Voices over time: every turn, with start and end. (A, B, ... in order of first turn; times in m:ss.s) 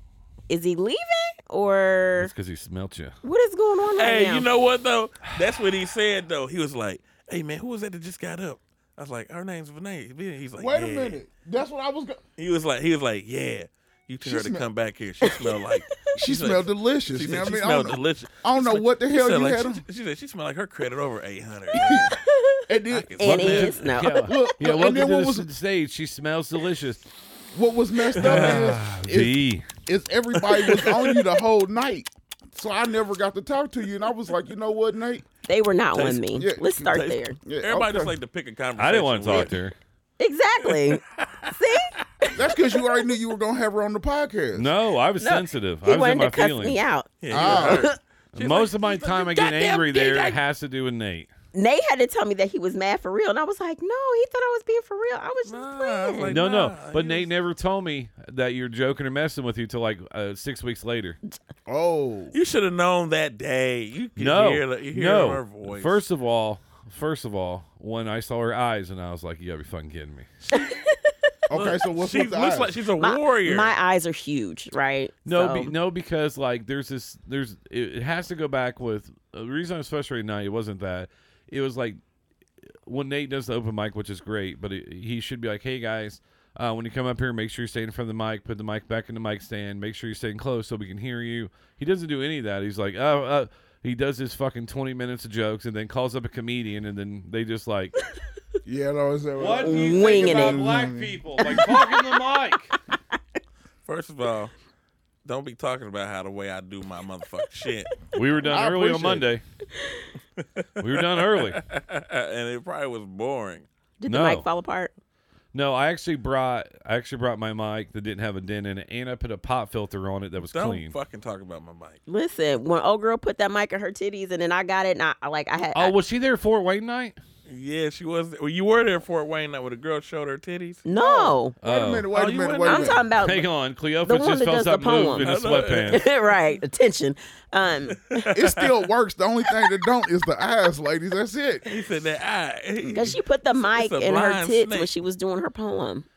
0:00.5-0:02.3 A
0:02.2-0:03.2 B
0:03.2-0:04.5 A
0:04.0-0:11.2 C
0:10.6-0:12.2 D
0:12.4-0:22.2 C
0:14.2-0:14.6 D
0:15.2-0:15.6 A
0:16.1-0:19.8 D
0:21.7-0:22.1 D
0:21.9-0:24.3 A
0:22.7-0:23.2 D
0:22.9-0:23.9 C
0:23.2-0:27.0 B
0:24.1-0:25.5 D
0:27.5-0:35.3 D
0:28.2-0:28.7 C
0:28.2-0:29.7 B
0:30.6-0:31.1 C
0:35.4-0:37.4 A
0:35.9-0:36.2 C
0:36.3-0:38.1 D
0:36.8-0:39.5 C
0:38.8-0:39.7 B
0:40.2-0:43.0 A
0:40.6-0:41.6 C
0:42.3-0:44.7 D
0:44.5-0:46.8 B
0:45.2-0:48.0 A
0:47.2-0:50.4 C
0:47.3-0:47.9 D
0:48.3-0:51.3 B
0:51.5-0:56.4 A
0:55.4-0:57.3 C
0:56.2-1:01.2 B
1:01.7-1:02.3 D
1:02.3-1:06.0 C
1:04.2-1:10.3 B
1:10.5-1:11.1 A
1:11.5-1:12.8 D
1:11.5-1:13.7 C
1:13.0-1:15.7 A
1:15.3-1:22.0 B
1:22.8-1:38.0 B
1:38.6-1:41.2 D
1:39.4-1:42.7 B
1:39.5-1:40.9 A
1:41.4-1:42.2 A
1:43.8-1:44.5 C
1:45.2-1:47.9 C
1:48.1-1:49.4 B
1:48.4-1:49.3 D
1:49.8-1:50.1 A
1:50.4-1:53.7 C
1:50.8-1:51.6 B
1:54.0-1:54.9 A
1:54.1-1:54.4 B
1:55.5-2:00.9 B
2:00.4-2:02.0 C
2:02.1-2:05.9 A
2:05.7-2:07.2 B
2:07.4-2:10.8 C
2:10.8-2:11.6 A
2:10.9-2:13.1 D
2:11.6-2:12.1 B
2:12.1-2:13.1 C
2:12.6-2:13.5 A
2:13.2-2:16.0 B
2:14.0-2:15.3 A
2:15.2-2:16.1 C
2:15.9-2:18.3 A
2:18.1-2:18.7 C
2:18.3-2:21.6 D
2:21.7-2:24.9 C
2:22.9-2:26.1 A